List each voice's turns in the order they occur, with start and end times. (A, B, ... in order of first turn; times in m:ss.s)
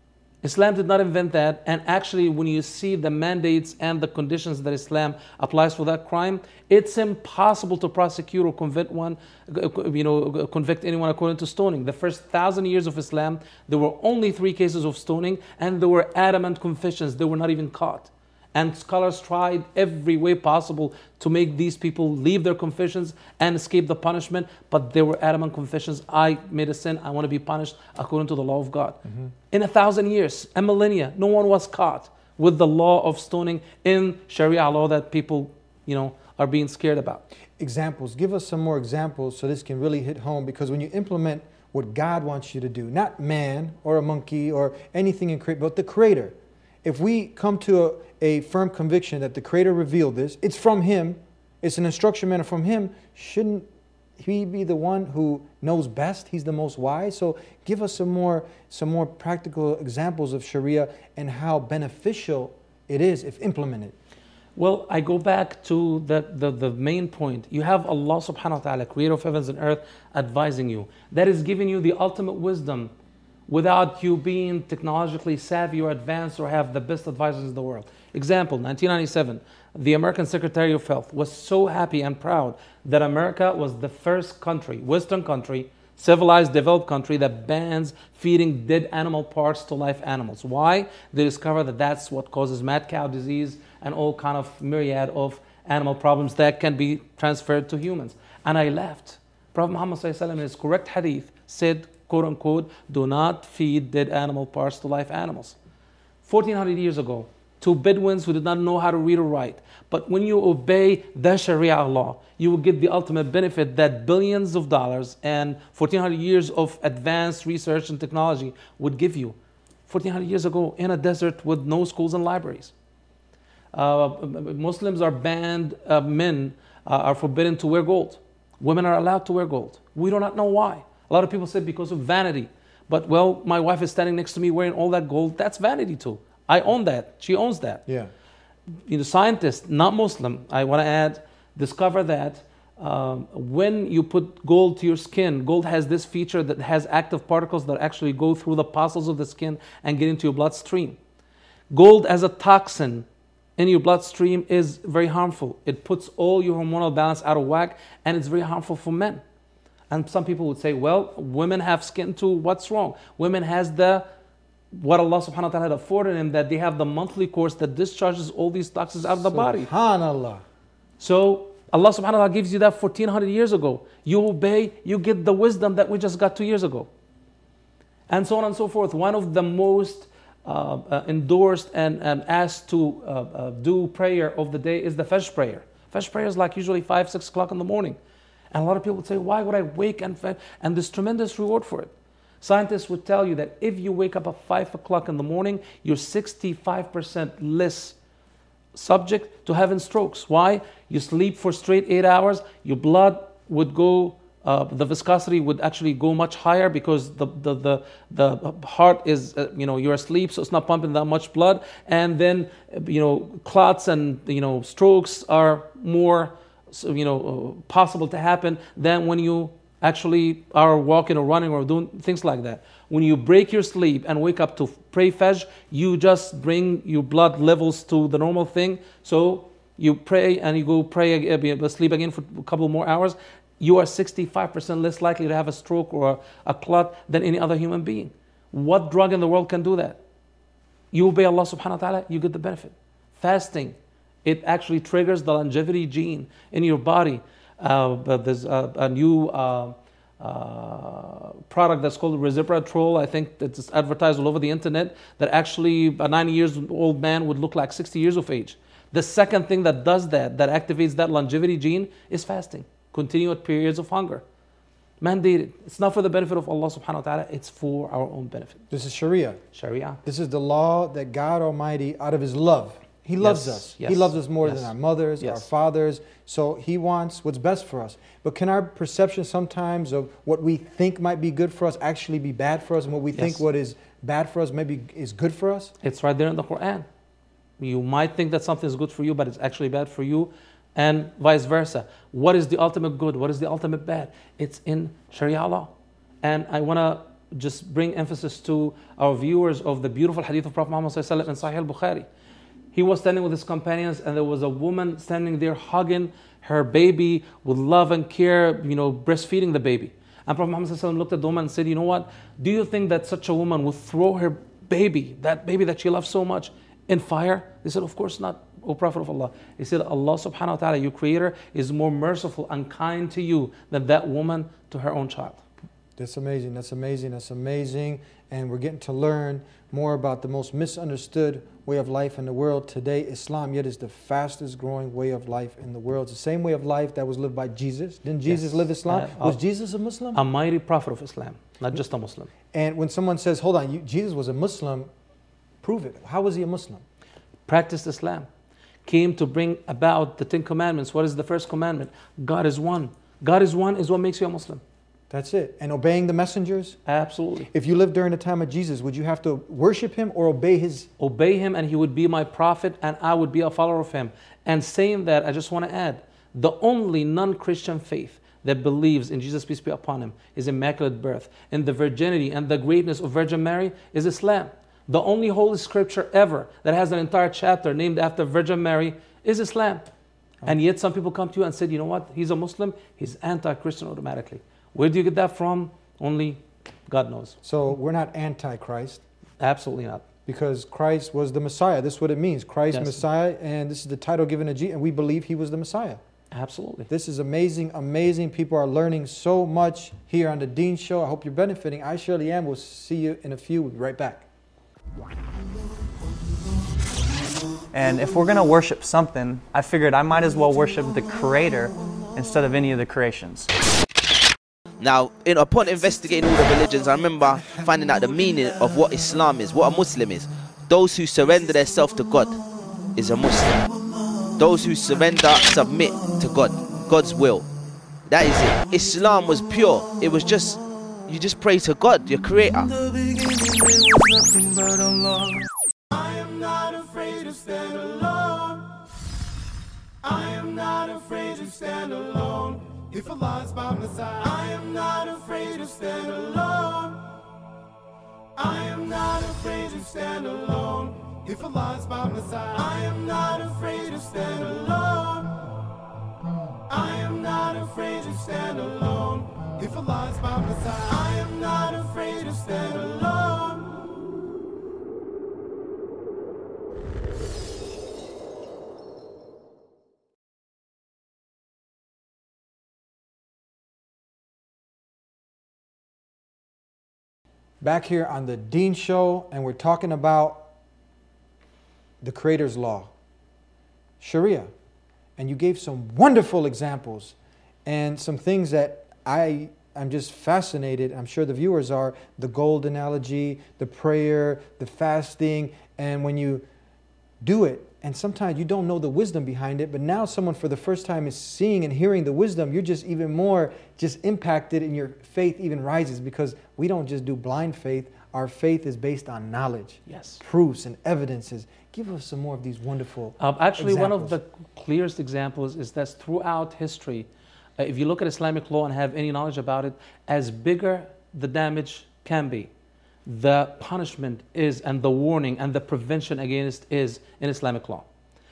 0:00.4-0:37.2 A
0:29.0-0:29.3 B
0:37.6-0:53.7 B
0:54.2-1:04.0 B
1:04.6-1:12.9 A
1:13.5-1:45.6 A
1:46.2-1:59.4 A
1:59.9-2:02.7 A
2:03.7-2:17.8 A
2:18.9-2:31.0 A
2:31.7-2:33.1 A
2:33.6-2:39.2 A
2:39.9-2:44.1 A
2:44.7-2:49.7 A
2:49.2-2:50.4 B
2:51.0-2:56.9 A
2:58.1-3:08.0 A
3:08.5-3:18.0 A
3:18.8-4:00.0 A
4:00.9-4:24.2 A
4:25.0-4:28.6 A
4:28.7-4:29.4 B
4:29.5-4:30.0 A
4:30.0-4:45.7 B
4:33.2-4:35.5 A
4:43.1-4:43.4 A
4:45.8-4:46.9 A
4:47.6-4:55.7 A
4:56.2-5:02.1 A
5:02.7-5:25.4 A
5:26.0-5:40.2 B
5:38.2-5:39.4 A
5:40.1-5:42.3 A
5:42.5-5:44.9 B
5:45.6-5:46.8 B
5:47.5-5:48.3 A
5:48.9-5:54.6 A
5:55.1-5:56.8 B
5:56.9-5:57.5 A
5:57.5-6:00.9 B
6:01.0-6:19.9 A
6:20.4-6:27.4 A
6:27.4-6:29.0 B
6:29.4-6:30.0 A
6:30.3-6:36.0 B
6:32.7-6:33.0 A
6:36.3-6:36.9 A
6:36.9-6:44.3 B
6:47.7-6:53.5 C
6:54.8-7:02.4 D
7:03.0-7:03.7 D
7:04.4-7:07.5 D
7:08.1-7:12.7 D
7:15.9-7:18.7 E
7:20.0-7:27.0 E
7:28.4-7:35.4 E
7:36.7-7:43.7 E
7:57.6-8:00.5 B
8:02.0-8:02.9 B
8:04.0-8:04.5 B
8:05.2-8:16.4 B
8:17.2-8:34.2 B
8:29.9-8:30.2 A
8:33.2-8:37.1 A
8:37.6-8:42.5 A
8:43.1-8:47.9 A